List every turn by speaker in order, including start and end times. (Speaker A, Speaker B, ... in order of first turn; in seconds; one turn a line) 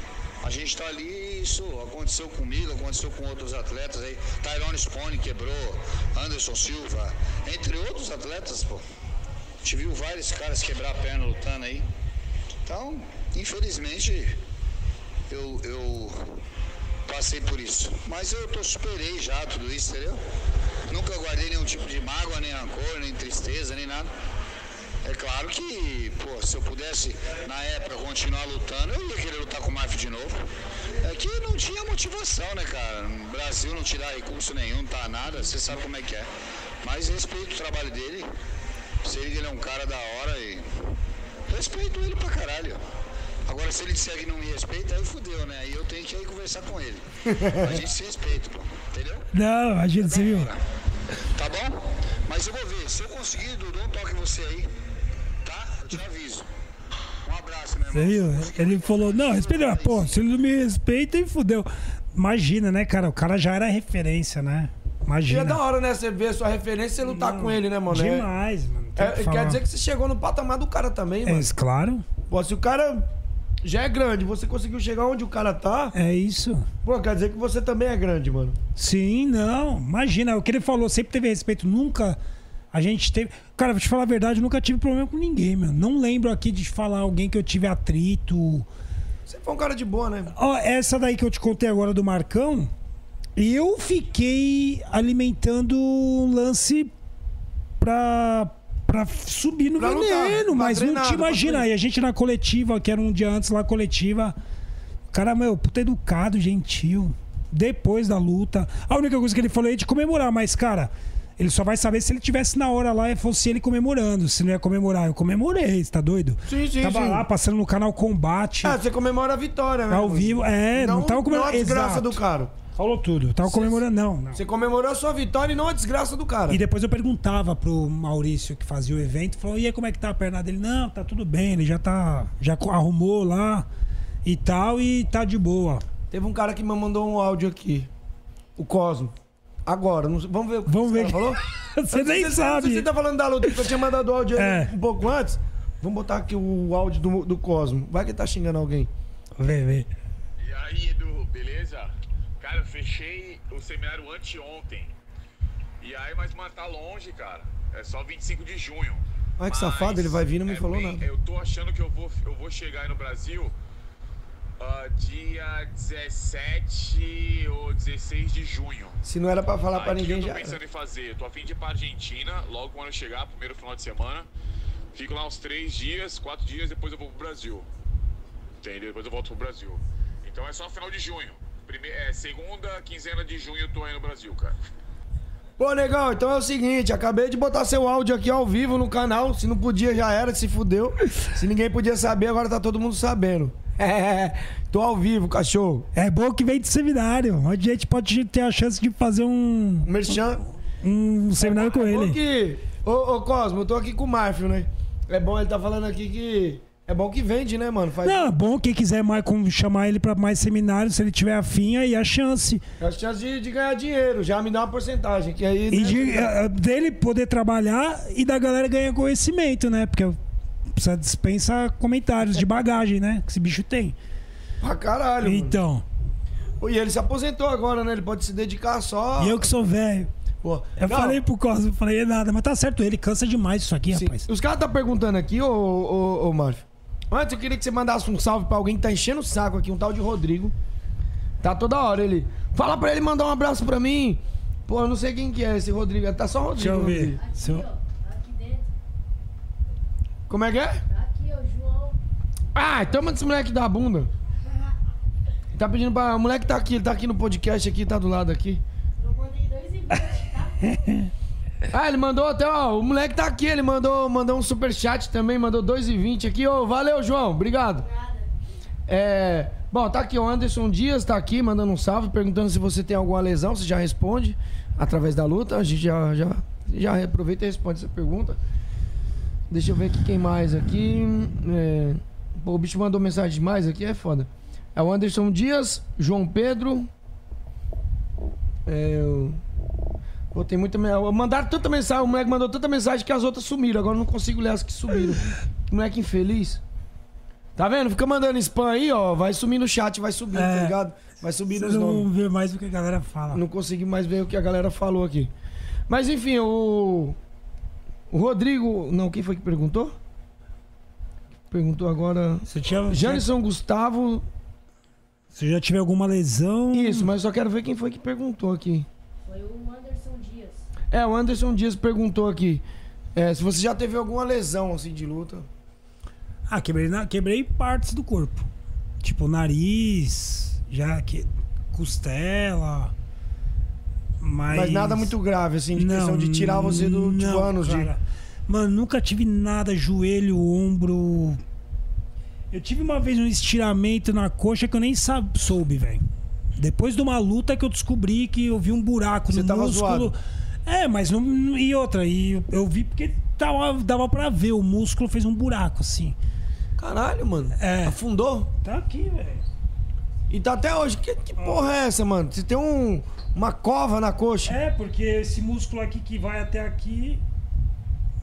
Speaker A: 0.4-8.8
Speaker A: 9.6-11.9
Speaker A: 12.7-14.4
Speaker A: 15.3-16.2
Speaker A: 17.1-20.2
Speaker A: 20.9-24.1
Speaker A: 25.1-30.4
Speaker A: 31.0-36.3
Speaker A: 36.8-38.3
Speaker A: 39.0-40.7
Speaker A: 41.5-42.8
Speaker A: 43.5-49.3
Speaker B: 47.3-47.7
Speaker C: 49.3-50.5
Speaker A: 50.2-50.5
Speaker A: 51.4-54.7
Speaker A: 55.4-56.5
Speaker A: 57.2-60.1
Speaker C: 57.9-65.6
Speaker B: 65.3-68.2
Speaker C: 67.0-69.6
Speaker B: 69.0-71.5
Speaker C: 71.2-72.1
Speaker B: 72.3-73.1
Speaker B: 73.6-75.9
Speaker C: 75.9-76.7
Speaker B: 76.8-78.6
Speaker C: 78.8-82.2
Speaker C: 82.7-88.7
Speaker B: 89.3-90.3
Speaker C: 90.3-92.7
Speaker C: 93.4-96.9
Speaker C: 97.8-104.4
Speaker B: 99.8-101.7
Speaker C: 105.1-118.8
Speaker B: 116.5-117.3
Speaker B: 118.6-122.5
Speaker C: 119.9-122.2
Speaker C: 122.7-124.4
Speaker B: 123.5-123.8
Speaker B: 124.3-126.6
Speaker C: 126.5-133.7
Speaker C: 134.2-135.8
Speaker B: 136.1-137.9
Speaker B: 138.6-139.2
Speaker B: 139.7-148.9
Speaker C: 140.7-142.9
Speaker C: 144.3-144.7
Speaker C: 149.4-149.9
Speaker D: 150.4-154.9
Speaker D: 155.8-163.5
Speaker B: 159.4-161.1
Speaker D: 164.6-169.0
Speaker B: 169.0-170.6
Speaker D: 169.7-174.3
Speaker D: 174.9-177.7
Speaker D: 178.6-184.6
Speaker B: 185.6-195.9
Speaker C: 195.9-200.0
Speaker B: 199.8-200.4
Speaker C: 200.8-202.2
Speaker B: 201.4-208.3
Speaker C: 208.0-212.6
Speaker B: 212.8-216.3
Speaker C: 215.7-220.2
Speaker C: 220.7-224.0
Speaker B: 224.6-225.6
Speaker C: 225.2-225.8
Speaker B: 226.6-229.5
Speaker C: 229.2-230.1
Speaker B: 230.4-231.2
Speaker C: 230.8-234.3
Speaker B: 233.9-240.6
Speaker B: 241.4-247.2
Speaker C: 246.5-247.7
Speaker E: 247.2-248.7
Speaker B: 250.3-250.8
Speaker E: 250.9-252.0
Speaker B: 252.6-254.1
Speaker B: 255.5-258.6
Speaker E: 259.0-260.7
Speaker C: 260.7-261.1
Speaker B: 261.7-267.9
Speaker E: 267.8-268.3
Speaker B: 268.9-278.4
Speaker B: 279.5-286.9
Speaker B: 288.7-289.4
Speaker B: 290.3-296.6
Speaker B: 297.6-302.1
Speaker C: 300.3-300.8
Speaker C: 301.5-303.4
Speaker B: 303.3-305.3
Speaker B: 305.9-307.2
Speaker B: 308.1-309.9
Speaker B: 311.5-314.3
Speaker C: 312.5-313.2
Speaker C: 315.3-317.1
Speaker B: 316.7-318.9
Speaker E: 319.3-320.7
Speaker B: 320.9-322.6
Speaker B: 323.1-325.5
Speaker C: 326.5-328.5
Speaker C: 329.0-332.9
Speaker C: 334.2-335.1
Speaker B: 334.5-337.9
Speaker C: 335.8-341.4
Speaker C: 342.5-346.1
Speaker C: 346.6-356.2
Speaker B: 349.3-350.1
Speaker B: 356.8-358.5
Speaker C: 357.6-358.0
Speaker C: 358.6-359.4
Speaker B: 360.3-364.6
Speaker C: 361.4-361.7
Speaker C: 364.5-367.2